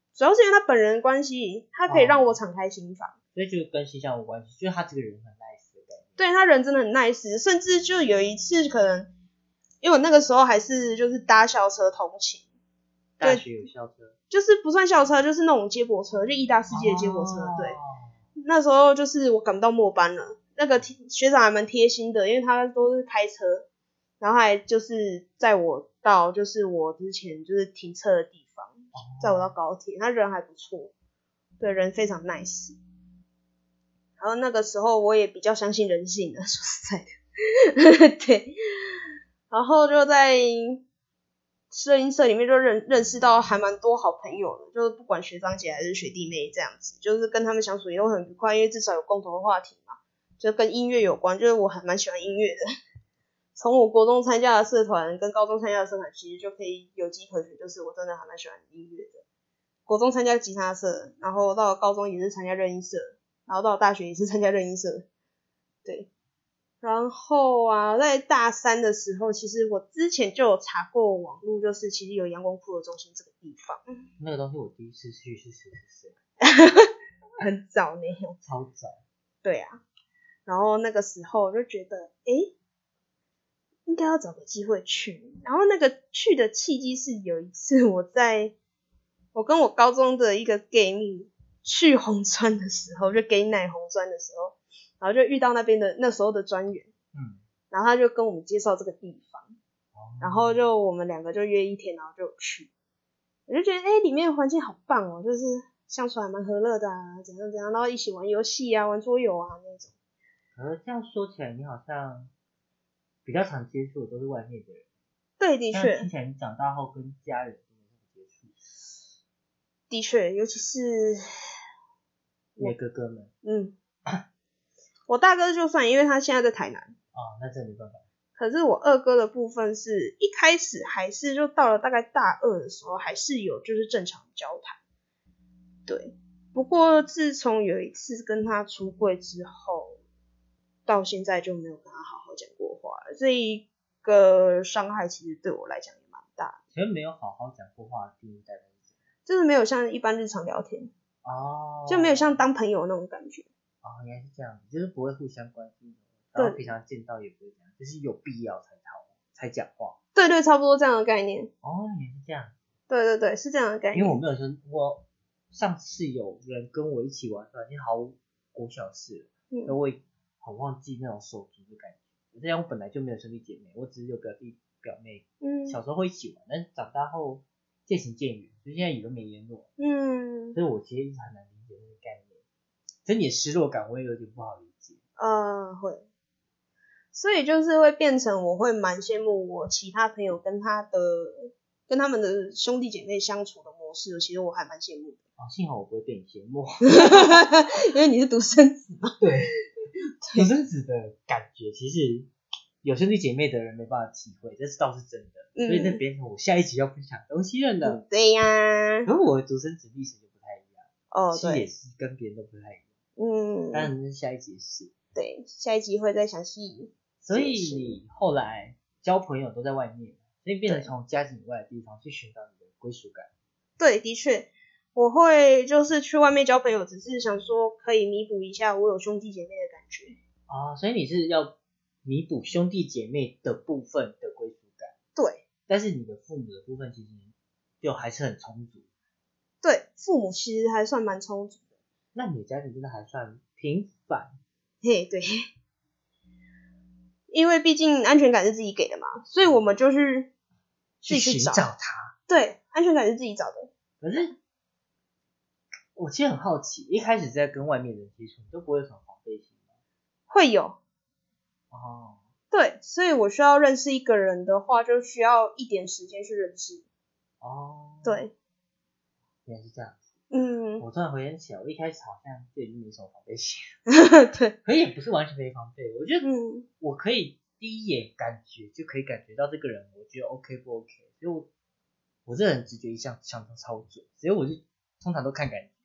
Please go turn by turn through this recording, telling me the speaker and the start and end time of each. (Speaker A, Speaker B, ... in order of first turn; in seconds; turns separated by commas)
Speaker A: 0.2-3.1, Speaker B: 1.9-2.4, Speaker B: 3.4-6.2, Speaker A: 6.2-9.1, Speaker A: 9.8-12.4, Speaker B: 13.2-14.1, Speaker A: 14.3-17.8, Speaker B: 16.7-18.1, Speaker A: 18.4-23.7, Speaker A: 24.2-30.9, Speaker B: 28.9-29.5, Speaker A: 31.6-32.8, Speaker A: 34.2-37.2, Speaker A: 37.8-39.0, Speaker A: 39.5-40.8, Speaker A: 41.7-52.6, Speaker A: 53.6-59.2, Speaker A: 59.9-65.1, Speaker A: 66.8-73.8, Speaker B: 74.2-76.2, Speaker A: 76.4-78.4, Speaker B: 78.4-79.0, Speaker A: 79.4-79.8, Speaker A: 80.5-82.5, Speaker A: 83.9-88.5, Speaker A: 89.3-96.9, Speaker B: 97.1-97.4, Speaker A: 97.7-99.6, Speaker B: 99.9-100.6, Speaker A: 100.2-102.7, Speaker A: 103.5-109.9, Speaker B: 110.5-112.3, Speaker B: 113.2-114.8, Speaker A: 115.4-116.1, Speaker B: 115.7-118.6, Speaker A: 119.9-121.3, Speaker B: 122.6-123.3, Speaker A: 123.4-123.8, Speaker A: 125.1-127.0, Speaker B: 127.1-128.0, Speaker A: 128.4-134.8, Speaker A: 135.9-140.0, Speaker A: 140.9-146.6, Speaker B: 146.7-148.7, Speaker A: 149.3-150.9, Speaker B: 151.2-152.4, Speaker A: 151.9-153.5, Speaker B: 153.8-160.0, Speaker A: 156.4-156.7, Speaker A: 160.2-161.5, Speaker B: 161.6-162.6, Speaker A: 162.9-164.2, Speaker B: 163.9-179.7, Speaker A: 169.5-169.8, Speaker A: 175.4-175.8, Speaker A: 179.8-180.6, Speaker B: 180.6-182.4, Speaker B: 183.1-185.0, Speaker A: 185.2-186.1, Speaker A: 187.1-195.2, Speaker B: 195.4-197.4, Speaker A: 196.9-199.2, Speaker B: 199.2-199.6, Speaker B: 200.3-202.3, Speaker B: 202.8-208.0, Speaker A: 205.6-206.0, Speaker A: 207.8-209.1, Speaker B: 209.1-212.8, Speaker A: 211.1-211.7, Speaker A: 213.2-213.9, Speaker B: 213.7-214.9, Speaker A: 215.2-218.0, Speaker B: 217.2-223.3, Speaker A: 223.8-230.2, Speaker B: 230.5-234.9, Speaker A: 235.2-235.4, Speaker B: 235.7-238.9, Speaker A: 239.6-241.6, Speaker B: 242.1-244.3, Speaker A: 244.8-245.3, Speaker A: 247.3-250.3, Speaker B: 251.0-252.1, Speaker A: 251.1-251.7, Speaker A: 252.3-253.7, Speaker B: 254.0-254.3, Speaker B: 255.9-259.6, Speaker A: 260.3-260.8, Speaker B: 261.7-262.2, Speaker A: 262.5-266.8, Speaker B: 267.4-268.2, Speaker A: 268.0-268.3, Speaker B: 269.5-270.0, Speaker A: 270.3-270.9, Speaker B: 270.8-273.7, Speaker A: 273.9-274.6, Speaker B: 274.6-276.3, Speaker A: 276.2-276.7, Speaker B: 276.8-281.5, Speaker B: 282.3-285.7